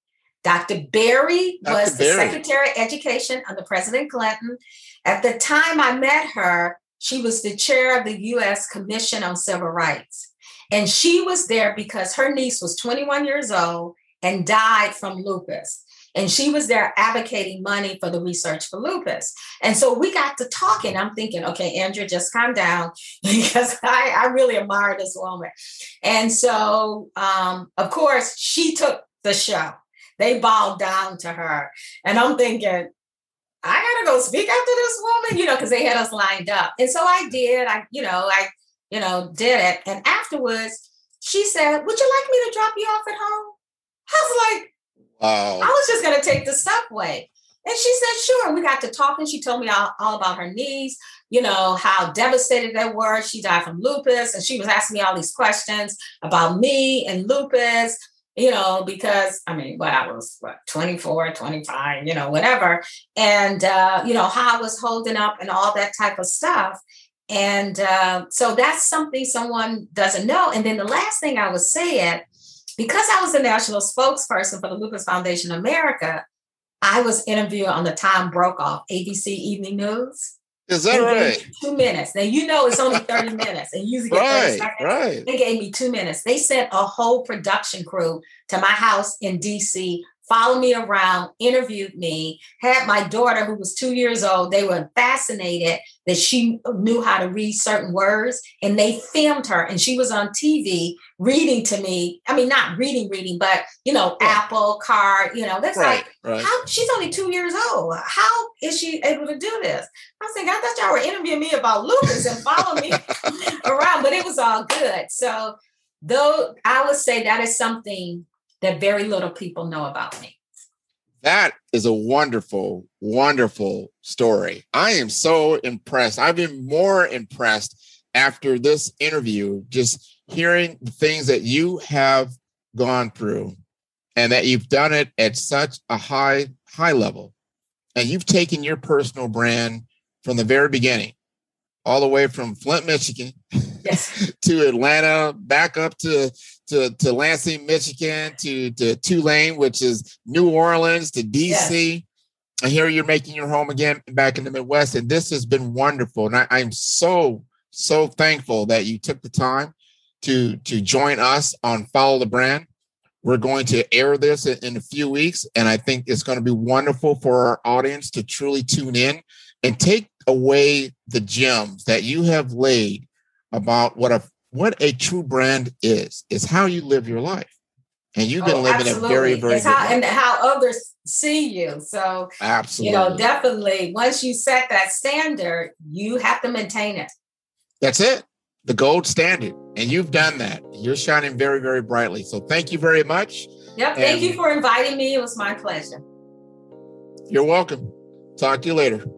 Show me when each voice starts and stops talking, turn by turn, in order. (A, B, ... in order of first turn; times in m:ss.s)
0:00.4-0:25.5 A
0:01.6-0:02.4 B
0:26.0-0:32.9 A
0:33.6-0:43.6 A
0:44.1-0:44.7 A
0:45.2-0:45.7 B
0:45.6-1:12.2 A
1:12.8-1:16.2 A
1:16.8-1:20.3 A
1:20.7-1:21.4 B
1:20.9-2:00.4 A
1:22.9-1:23.4 B
1:24.1-1:25.3 B
1:45.8-1:46.5 B
2:01.2-2:13.6 B
2:14.2-2:17.3 B
2:18.0-2:21.1 B
2:21.8-2:23.4 B
2:23.8-2:24.1 A
2:24.2-2:32.0 B
2:31.4-2:31.7 A
2:32.6-2:42.7 B
2:43.2-2:57.5 B
2:58.2-3:00.0 B
2:58.4-3:07.1 A
3:02.4-3:03.2 B
3:07.8-3:14.4 B
3:13.8-3:16.0 A
3:17.3-3:19.0 B